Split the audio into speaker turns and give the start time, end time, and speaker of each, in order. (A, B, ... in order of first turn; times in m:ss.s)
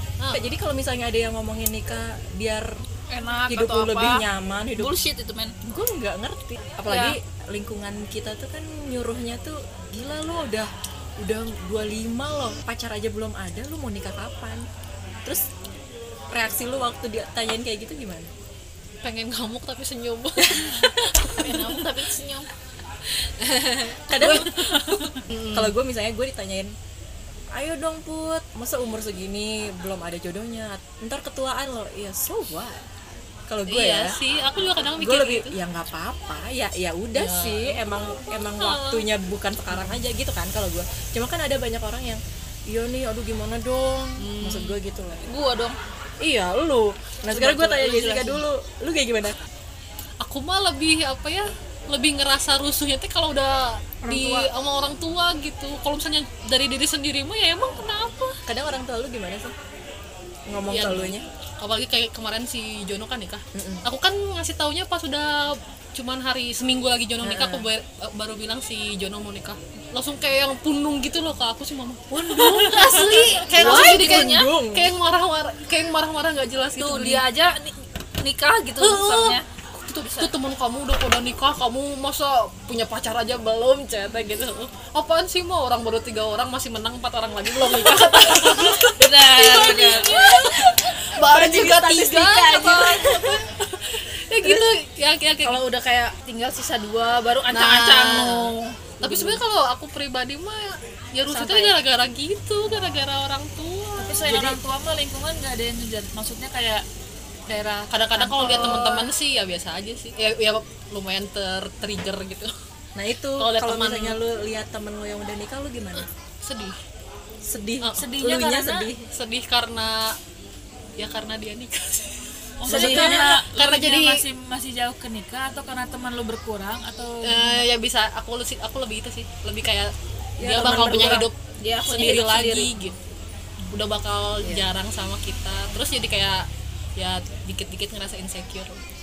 0:00.2-0:00.4 A
0:00.3-0:02.8 B
0:03.1-0:04.2 C
0:03.5-0:04.9 B
0:04.8-0:05.5 C
0:05.6-0:14.6 B
0:06.9-0:07.2 C
0:16.3-0:18.3 B
0:19.0-0:21.9 A
0:21.4-0:22.5 C
0:23.9-0:24.6 B
0:24.2-0:24.7 C
0:24.2-0:25.2 D
0:25.3-0:25.7 A
0:25.5-0:26.7 B
0:27.5-0:32.8 B
0:33.5-0:34.2 B
0:33.7-0:35.5 A
0:35.0-0:45.3 B
0:37.1-0:37.8 A
0:38.5-0:39.1 A
0:44.2-0:44.8 A
0:45.2-0:45.8 C
0:46.2-0:49.4 B
0:47.3-0:48.4 A
0:50.2-0:58.4 A
0:54.0-0:54.4 C
0:58.5-0:59.5 B
1:00.5-1:01.2 B
1:00.7-1:17.2 A
1:03.5-1:03.8 B
1:07.2-1:07.7 B
1:12.1-1:14.9 B
1:12.7-1:14.5 C
1:16.8-1:19.4 C
1:18.8-1:35.6 A
1:20.0-1:20.3 C
1:28.0-1:30.4 C
1:29.5-1:30.2 B
1:31.1-1:33.4 B
1:35.4-1:39.4 C
1:37.5-1:44.6 A
1:41.3-1:41.7 C
1:44.0-1:46.8 D
1:47.5-1:48.9 D
1:47.9-1:52.5 A
1:48.4-1:49.0 C
1:53.0-1:56.1 B
1:53.4-1:54.2 A
1:56.4-1:56.8 A
1:57.4-1:59.0 B
1:57.8-1:58.1 A
1:58.0-1:58.9 D
1:59.1-2:00.2 A
2:01.0-2:04.2 A
2:02.6-2:07.6 D
2:02.7-2:03.2 B
2:07.2-2:13.0 A
2:10.4-2:11.3 B
2:11.6-2:12.7 C
2:13.7-2:18.8 A
2:14.4-2:14.7 B